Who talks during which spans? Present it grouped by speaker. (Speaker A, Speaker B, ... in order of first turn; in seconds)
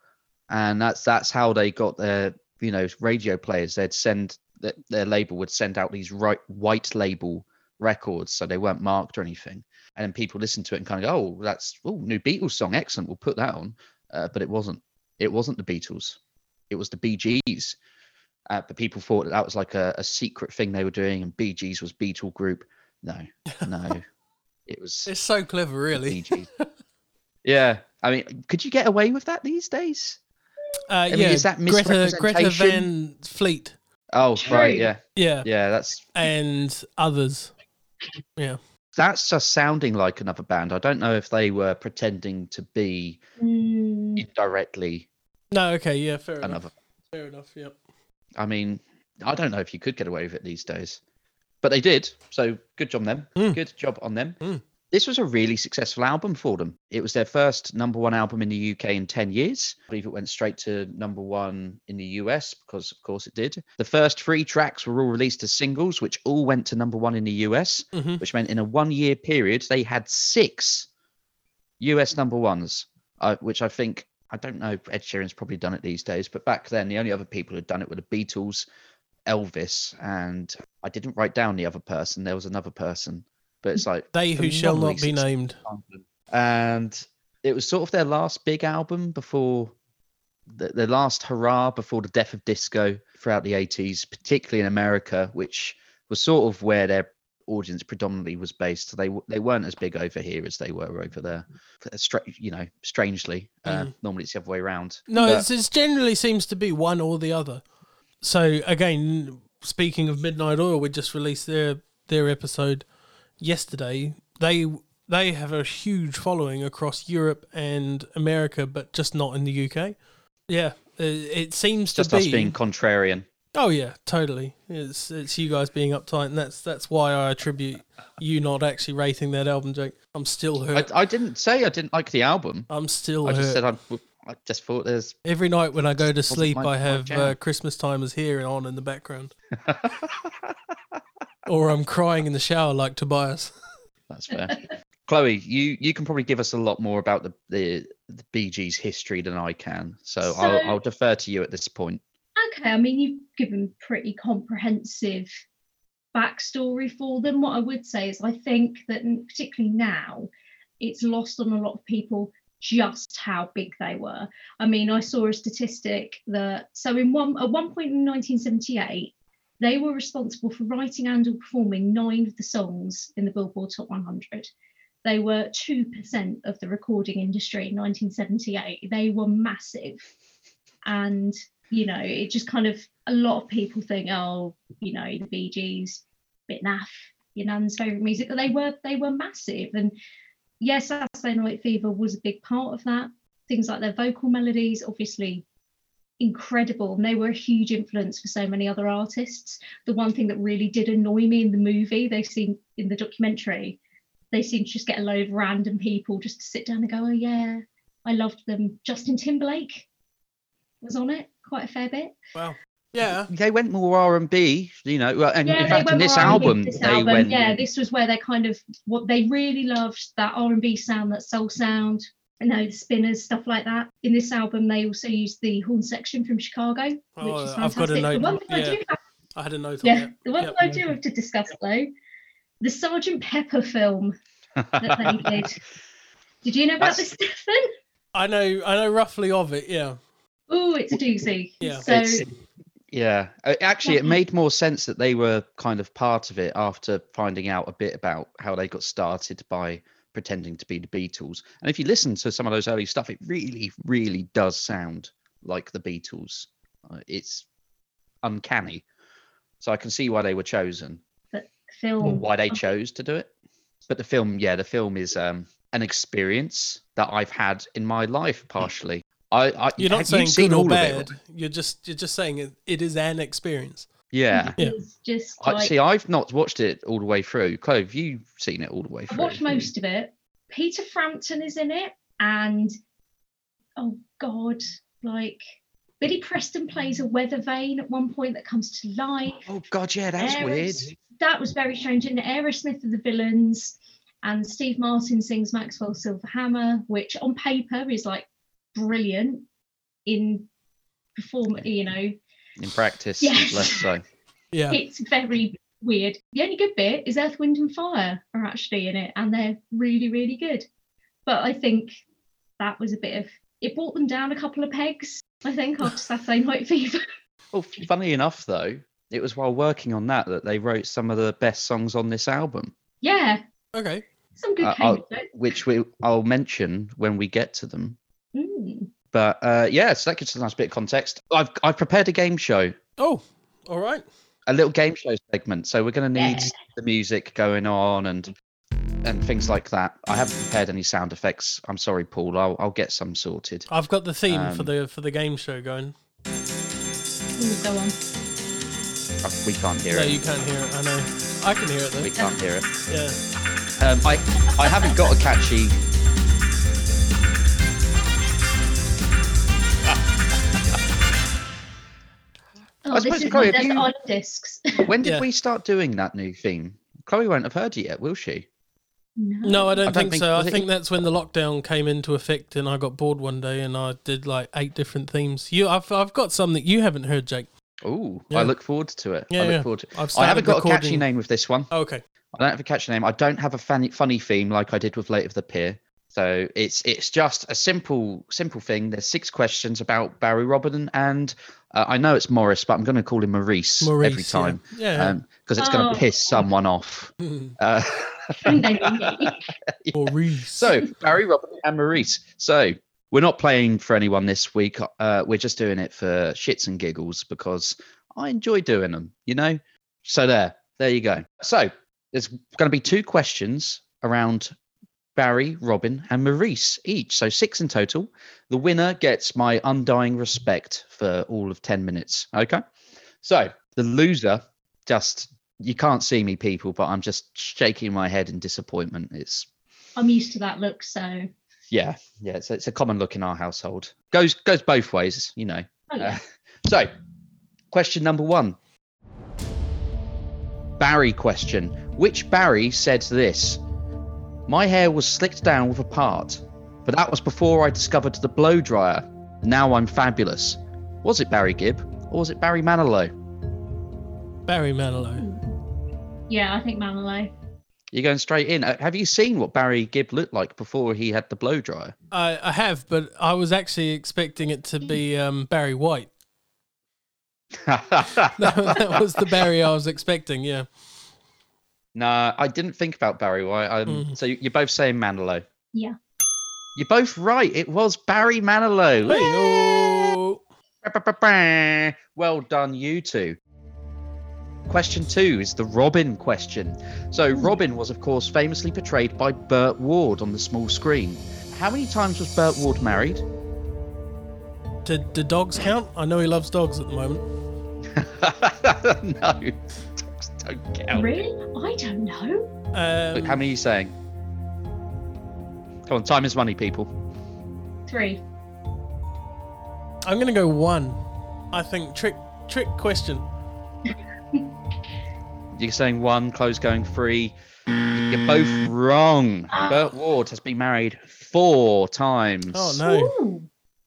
Speaker A: 0.5-16.2, 16.7-17.8, 18.5-24.0, 24.7-25.1, 25.9-26.5, 27.4-30.2, 31.1-32.9, 34.1-36.0, 39.0-43.2, 44.2-45.1, 46.4-46.7, 48.4-51.0, 51.6-54.4, 54.9-70.9, 71.8-78.7, 79.3-89.7, 90.5-105.5, 121.9-123.2, 130.7-132.7, 133.2-135.1, 136.3-137.3, 139.6-140.2, 144.1-152.0, 213.0-217.6, 234.6-235.5, 241.8-242.3, 242.9-257.4, 258.2-258.8, 259.6-261.0, 262.0-263.3, 263.9-271.1, 274.1-274.5, 275.4-279.7, 289.5-290.9, 302.6-304.0, 317.5-322.7, 324.6-328.0, 329.1-332.8, 334.5-338.3, 339.0-343.7, 344.3-344.7, 349.2-350.2, 352.0-352.7, 353.8-355.8, 362.9-363.9, 364.8-368.5, 369.8-370.7, 377.8-381.7, 382.3-414.5, 415.1-422.6, 423.2-429.5, 431.7-436.9, 437.7-438.6, 440.8-443.6, 444.5-453.1, 457.9-461.9, 467.6-469.3, 471.9-475.4, 476.8-479.3, 480.8-483.4, 484.7-493.2, 497.9-501.2, 503.1-503.9, 505.9-506.9, 515.5-522.8
Speaker B: 25.1-26.6, 30.9-33.8, 35.1-35.5, 36.1-37.5, 45.5-47.7, 67.9-68.2, 84.1-85.6, 105.1-107.6, 108.2-112.8, 113.4-120.0, 120.5-122.5, 123.5-130.9, 132.7-133.6, 135.2-139.3, 141.4-143.5, 212.3-213.3, 215.7-216.5, 227.2-228.8, 229.3-230.9, 238.1-240.0, 269.8-273.9, 304.5-304.8, 323.7-324.0, 333.0-334.0, 343.7-345.9, 349.9-352.1, 352.9-353.2, 369.4-377.5, 379.3-381.0, 381.7-382.0, 393.8-395.1, 397.2-397.5, 399.9-400.7, 454.5-455.2, 462.1-466.1, 468.4-470.7, 473.9-474.1, 479.1-480.4, 494.8-497.2, 502.7-503.4, 510.0-511.0, 511.5-513.2, 522.5-523.1
Speaker C: 34.4-34.9, 43.4-44.2, 150.2-150.8, 152.3-155.4, 156.1-174.5, 175.0-180.0, 180.8-189.9, 190.6-195.4, 196.2-203.8, 204.3-209.8, 210.8-212.1, 215.4-229.0, 229.8-231.9, 232.6-234.2, 234.8-235.6, 236.4-237.6, 240.5-242.2, 243.8-244.2, 261.3-262.6, 274.3-275.7, 279.1-282.7, 283.8-285.4, 286.0-289.5, 290.2-299.4, 300.1-300.5, 301.1-302.1, 303.2-303.8, 304.7-310.6, 311.2-311.9, 312.6-317.0, 323.0-323.4, 324.4-325.3, 328.3-328.9, 336.2-336.5, 347.4-348.0, 354.6-355.0, 362.9-364.9, 369.2-369.9, 395.6-396.1, 398.4-399.4, 429.9-431.3, 435.9-436.2, 455.1-455.5, 456.3-457.3, 479.1-479.8, 500.9-502.5, 507.9-508.2, 513.9-514.4, 519.5-519.9, 522.8-523.5